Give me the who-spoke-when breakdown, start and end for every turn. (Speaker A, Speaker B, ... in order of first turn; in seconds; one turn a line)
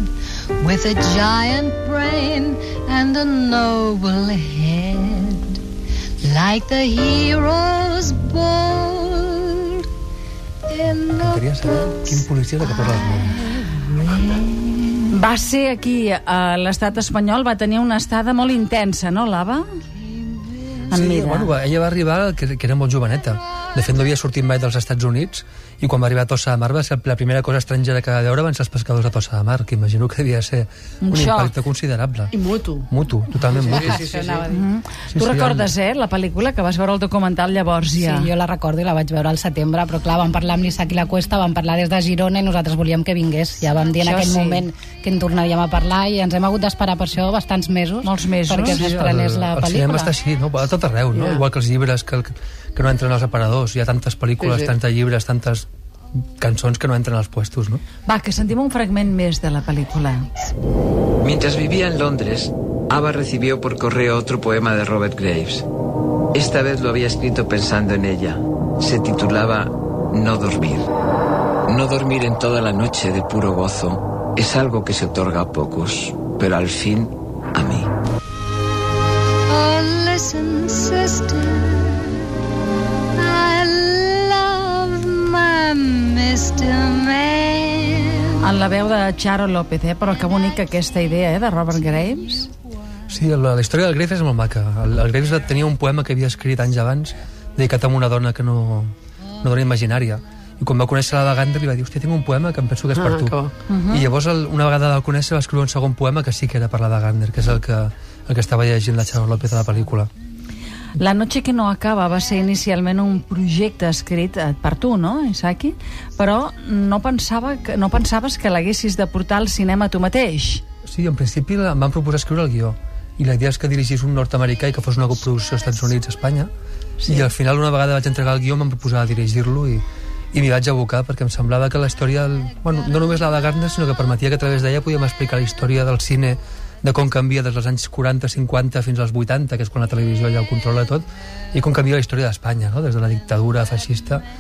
Speaker A: 0.6-5.6
Speaker A: 6.2-9.8
Speaker A: 10.7-11.5
Speaker B: 10.9-13.9
Speaker C: 15.1-19.8
Speaker C: 20.9-21.5
Speaker B: 20.9-32.3
Speaker C: 31.0-31.5
Speaker D: 32.3-32.9
Speaker B: 32.9-34.2
Speaker E: 33.8-34.5
Speaker F: 34.0-34.4
Speaker C: 34.5-38.3
Speaker B: 35.1-35.7
Speaker F: 38.0-50.1
Speaker C: 44.0-44.6
Speaker C: 48.0-48.9
Speaker B: 48.6-55.6
Speaker D: 51.1-51.5
Speaker D: 54.4-54.7
Speaker B: 56.4-57.8
Speaker C: 58.0-60.2
Speaker E: 61.2-65.6
Speaker E: 66.3-70.9
Speaker E: 71.7-77.9
Speaker A: 79.5-81.5
Speaker A: 83.5-87.7
Speaker C: 88.4-92.5
Speaker B: 93.1-110.1
Speaker D: 102.9-103.5
Speaker C: 103.7-104.1
Speaker C: 111.0-120.6
Speaker B: 120.8-126.5
Speaker C: 127.0-127.3
Speaker B: 127.1-144.2